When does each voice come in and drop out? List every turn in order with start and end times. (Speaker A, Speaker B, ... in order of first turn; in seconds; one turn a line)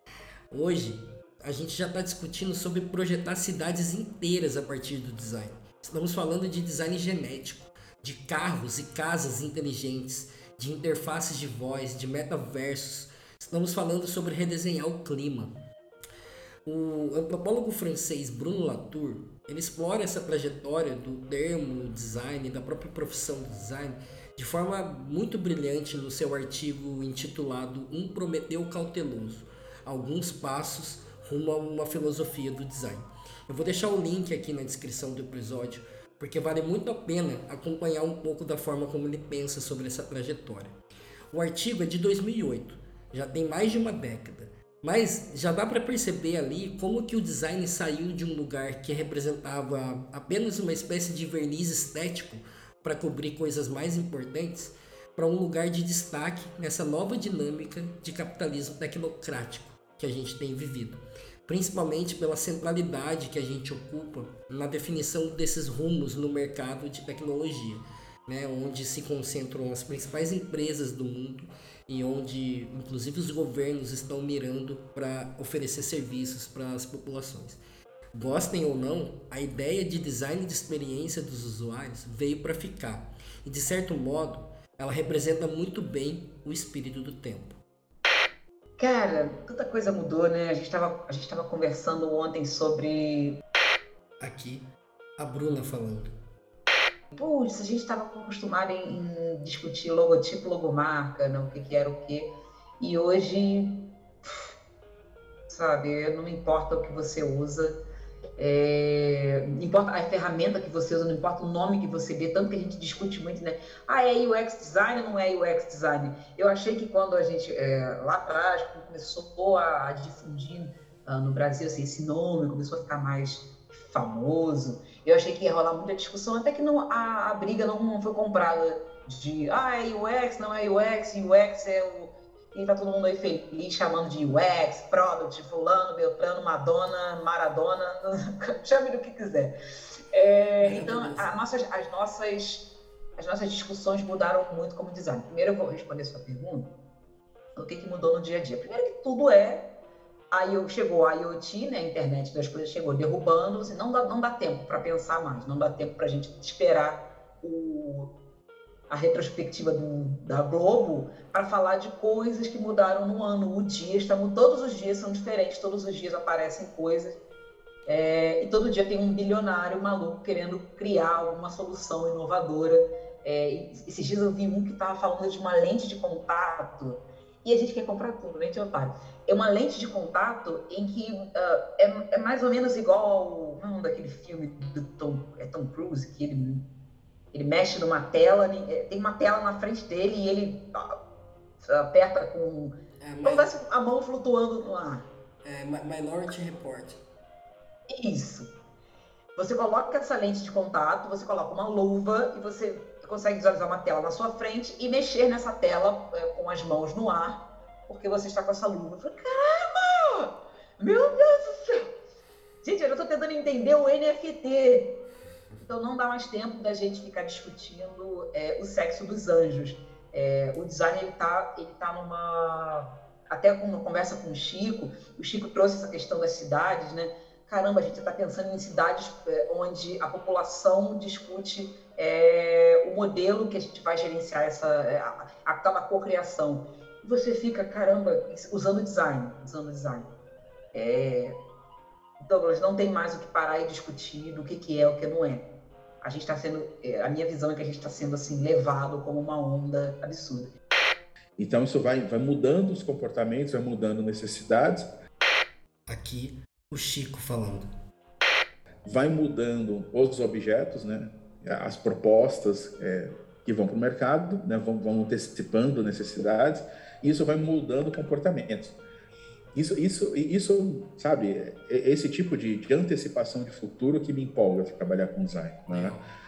Speaker A: 0.5-15.5
Speaker A: 16.6-40.8
Speaker A: 41.3-77.6
Speaker A: 78.1-87.6
Speaker B: 88.8-93.4
Speaker A: 94.2-96.1
Speaker B: 97.1-104.3
Speaker B: 105.5-107.8
Speaker B: 108.4-139.5
Speaker B: 140.1-146.7
Speaker A: 140.6-141.4
Speaker B: 147.6-149.7
Speaker B: 150.3-158.1
Speaker B: 158.9-167.2
Speaker B: 167.9-186.7
Speaker B: 187.3-191.0
Speaker B: 191.6-195.1
Speaker A: 193.0-193.5
Speaker A: 195.4-197.0
Speaker B: 197.9-198.5
Speaker B: 199.3-211.9
Speaker B: 212.6-214.9
Speaker B: 215.7-240.1
Speaker B: 240.7-241.4
Speaker B: 242.2-245.4
Speaker B: 246.0-250.5
Speaker C: 251.4-254.9
Speaker A: 255.9-257.7
Speaker C: 258.8-268.7
Speaker C: 269.5-275.9
Speaker A: 275.7-276.1